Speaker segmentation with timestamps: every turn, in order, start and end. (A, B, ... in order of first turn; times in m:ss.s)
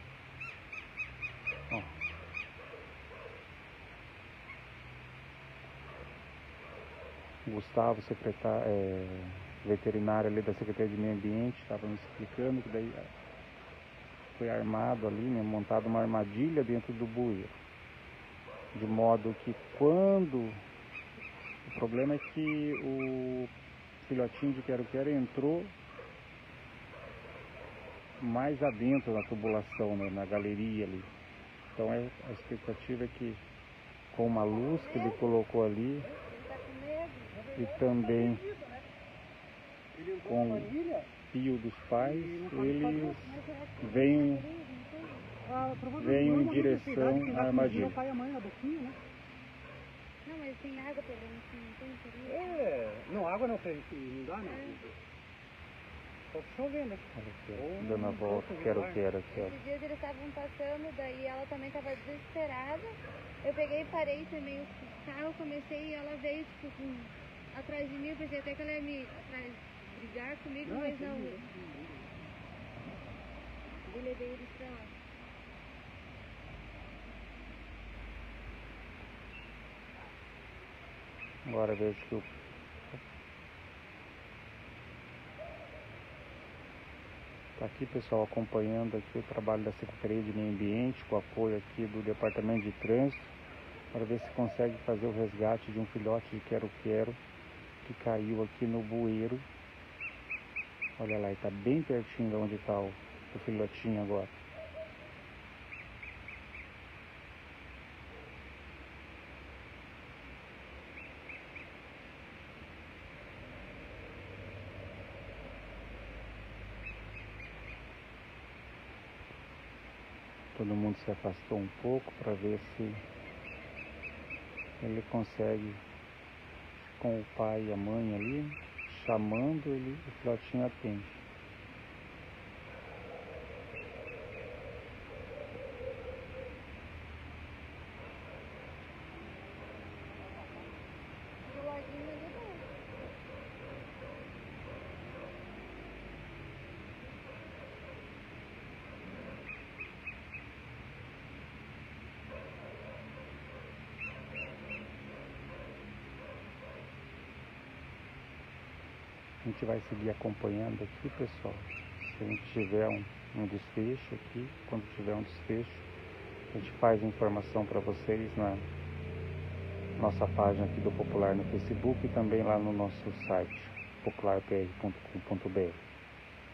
0:07.4-0:13.1 A
0:14.3-0:17.6 A
0:18.7-0:20.6 A
0:21.6-0:25.7 A
0:28.2-0:31.1 A
0:31.7-0:33.4 A
0:34.1-0:36.1 A
0:34.6-0:35.2 B
0:36.1-0:37.5 B
0:37.5-0:38.7 C
0:37.5-0:38.4 A
0:39.9-0:41.1 C
0:40.2-0:40.7 A
0:41.3-0:44.5 A
0:42.1-0:43.2 C
0:42.8-0:45.3 B
0:45.4-0:49.0 C
0:45.9-0:48.0 A
0:50.2-0:52.8 B
0:52.3-0:54.9 C
0:54.5-0:54.8 B
0:56.3-0:59.0 C
0:57.1-0:59.6 A
0:59.3-1:11.4 B
1:10.7-1:12.1 C
1:13.8-1:14.9 B
1:21.4-1:22.3 A
1:27.6-1:33.3 A
1:33.9-1:37.2 A
1:37.8-1:39.4 A
1:41.0-1:44.4 A
2:00.5-2:03.0 A
2:04.8-2:05.8 A
2:06.8-2:11.2 A
2:21.5-2:22.7 B
2:39.4-2:45.9 A
2:46.5-2:48.6 A
2:50.0-2:55.8 A